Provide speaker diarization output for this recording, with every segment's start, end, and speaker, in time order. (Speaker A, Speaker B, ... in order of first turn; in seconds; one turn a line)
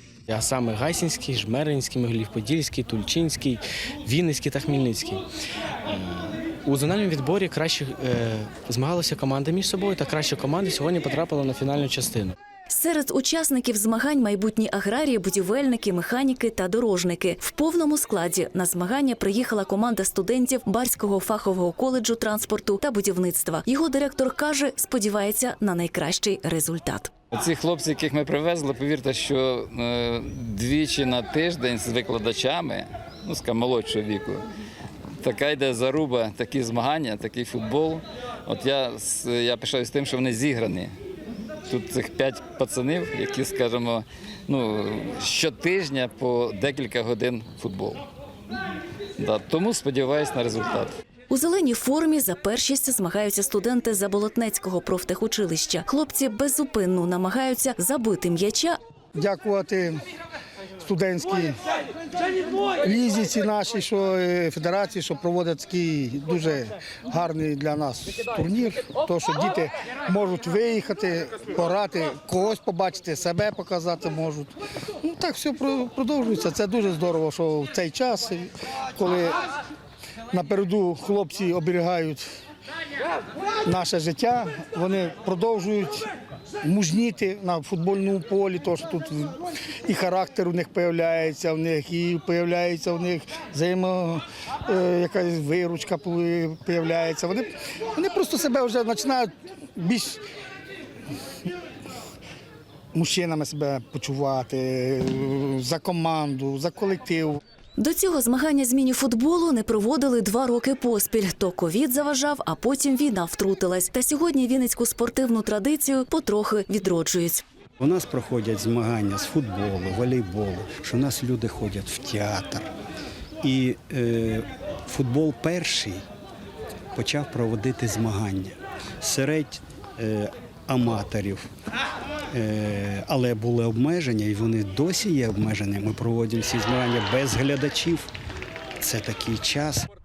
Speaker A: 0.3-5.2
Speaker A: 5.9-12.3
Speaker B: 12.7-27.1
Speaker C: 27.3-34.5
Speaker C: 35.2-40.9
Speaker C: 41.7-48.0
Speaker C: 49.2-51.0
Speaker B: 51.3-58.8
Speaker D: 59.1-60.0
Speaker D: 60.8-61.6
Speaker D: 62.8-79.4
Speaker D: 80.3-82.3
Speaker D: 83.6-86.1
Speaker D: 86.6-100.2
Speaker D: 102.9-107.4
Speaker B: 107.8-117.4
Speaker E: 117.8-122.7
Speaker E: 123.4-126.0
Speaker E: 126.9-131.5
Speaker E: 132.3-138.1
Speaker E: 138.8-139.9